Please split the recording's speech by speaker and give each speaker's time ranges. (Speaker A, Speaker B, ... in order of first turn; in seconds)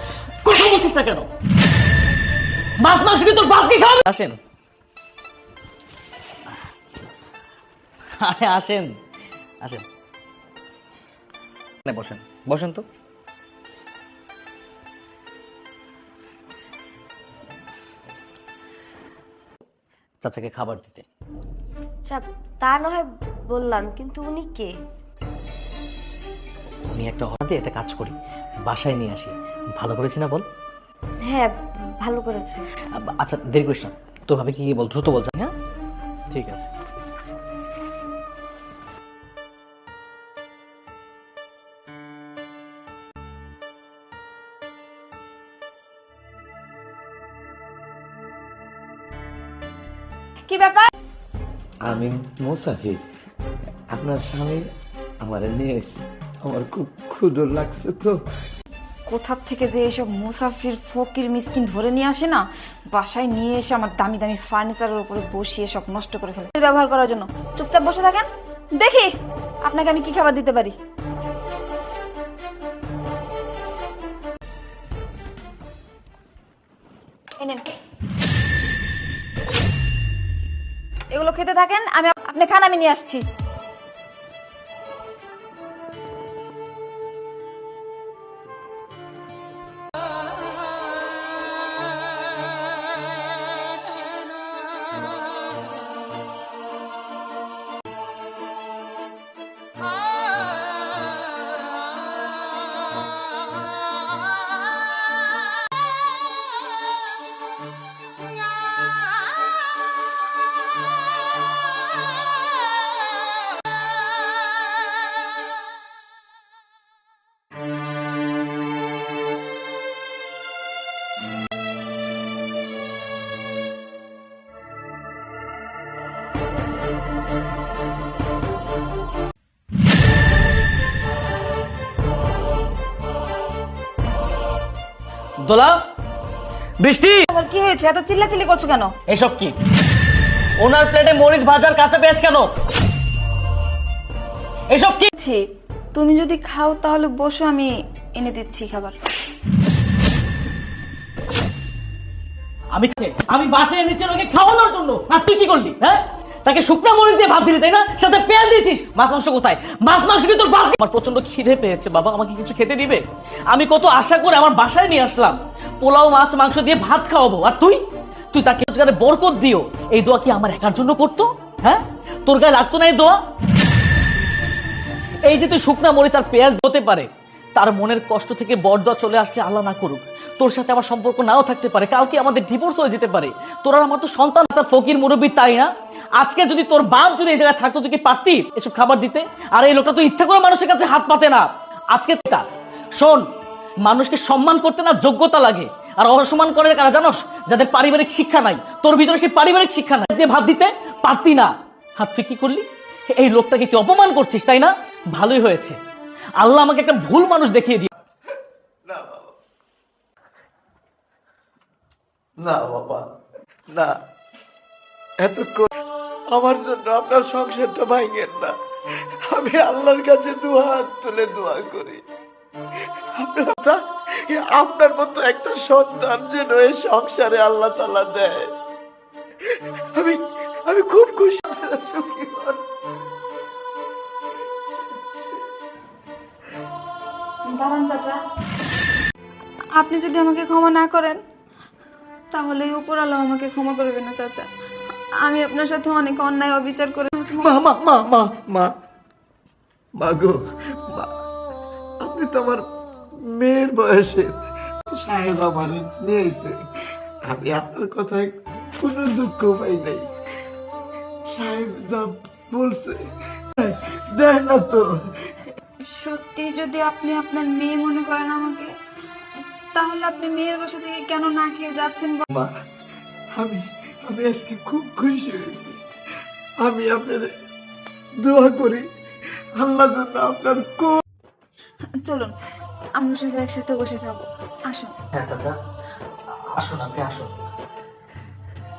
Speaker A: 0.4-1.3, 2.8-4.4, 8.2-8.9, 11.8-12.8, 20.2-21.1, 26.9-30.5, 32.9-35.5, 36.3-36.7, 135.4-135.8, 136.8-137.3, 139.1-139.5, 140.6-142.5, 144.7-145.1, 152.7-167.8, 168.3-173.2, 175.2-193.2, 193.8-202.7, 203.2-205.8, 206.4-207.9, 285.1-285.5, 286.5-287.3
Speaker B: 22.1-24.8, 31.2-32.7
Speaker C: 50.5-50.9, 59.1-69.1, 69.6-70.8, 77.4-77.7, 81.1-83.2, 137.3-138.9, 145.1-145.4, 145.9-148.9, 237.5-238.2, 239.7-241.2, 242.3-244.5, 245.2-247.6, 265.8-268.7, 269.7-272.2, 282.0-282.4, 283.0-284.9
Speaker D: 51.8-53.0, 53.9-54.6, 55.2-58.1, 208.9-209.3, 212.4-213.0, 215.2-215.7, 216.3-218.5, 219.3-222.0, 223.2-228.5, 229.5-232.6, 247.3-248.7, 250.0-251.1, 252.0-252.6, 253.3-254.3, 255.0-256.6, 257.3-260.1, 261.3-263.0, 263.6-265.4, 273.4-275.8, 276.6-277.3, 278.2-278.9, 279.6-281.0